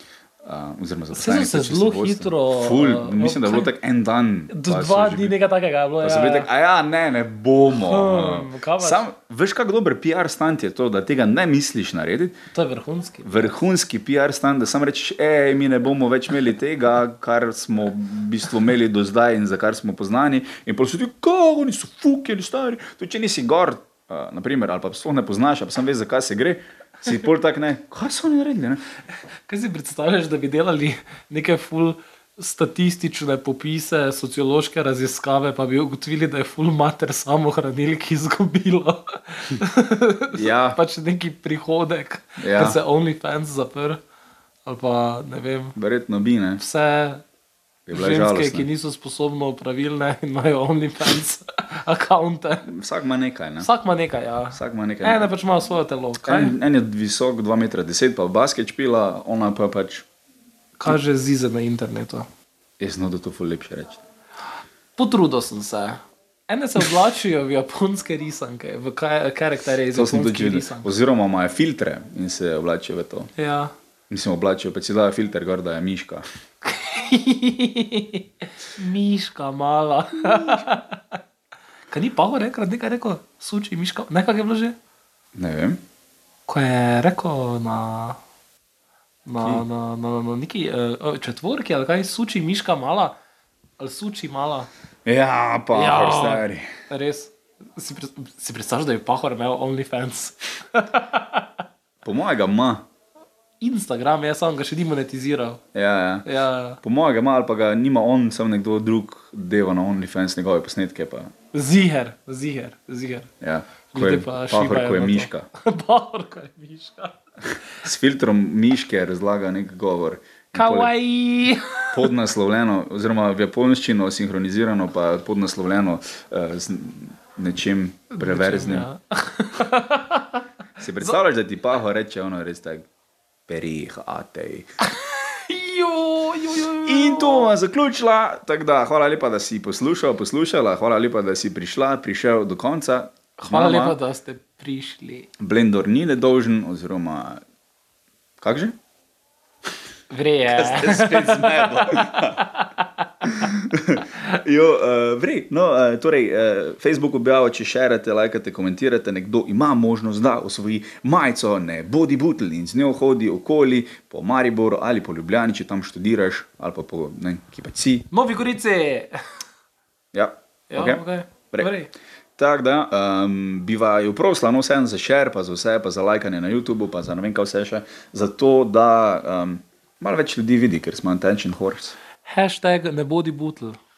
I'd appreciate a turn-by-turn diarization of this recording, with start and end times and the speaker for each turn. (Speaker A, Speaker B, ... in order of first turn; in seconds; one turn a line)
Speaker A: 0.4-5.3
Speaker B: 1.1-3.7
Speaker B: 4.5-6.5
Speaker A: 6.0-12.4
Speaker B: 7.7-9.0
Speaker B: 12.5-13.5
Speaker A: 13.2-28.8
Speaker B: 29.5-44.0
Speaker A: 40.3-40.8
Speaker A: 42.4-42.8
Speaker B: 44.6-45.8
Speaker A: 45.8-46.6
Speaker B: 46.6-47.2
Speaker A: 47.9-48.6
Speaker B: 47.9-52.7
Speaker A: 52.6-53.7
Speaker B: 53.6-56.5
Speaker A: 54.5-55.2
Speaker A: 56.2-60.0
Speaker B: 60.8-62.3
Speaker A: 62.8-64.0
Speaker B: 65.0-70.9
Speaker A: 69.9-73.3
Speaker B: 73.3-73.7
Speaker A: 74.1-76.2
Speaker B: 76.6-78.2
Speaker B: 78.8-81.2
Speaker B: 81.9-84.8
Speaker A: 85.3-85.8
Speaker B: 86.5-88.2
Speaker B: 89.2-93.2
Speaker B: 93.8-94.7
Speaker A: 95.0-96.7
Speaker B: 95.7-101.5
Speaker A: 102.0-102.8
Speaker B: 103.6-105.6
Speaker A: 105.7-106.3
Speaker B: 106.2-106.8
Speaker A: 106.8-111.3
Speaker B: 111.5-113.3
Speaker A: 113.4-115.5
Speaker B: 113.9-117.1
Speaker A: 117.8-120.9
Speaker B: 120.5-122.1
Speaker A: 121.9-128.9
Speaker B: 128.2-130.4
Speaker A: 130.8-132.9
Speaker A: 133.5-134.7
Speaker B: 134.8-137.5
Speaker A: 136.8-144.0
Speaker B: 143.4-145.3
Speaker A: 145.4-147.4
Speaker A: 148.4-148.8
Speaker B: 150.1-152.8
Speaker A: 150.4-152.4
Speaker A: 153.2-168.1
Speaker B: 168.1-169.2
Speaker A: 170.1-171.7
Speaker B: 170.7-171.9
Speaker A: 172.4-182.0
Speaker B: 182.3-183.8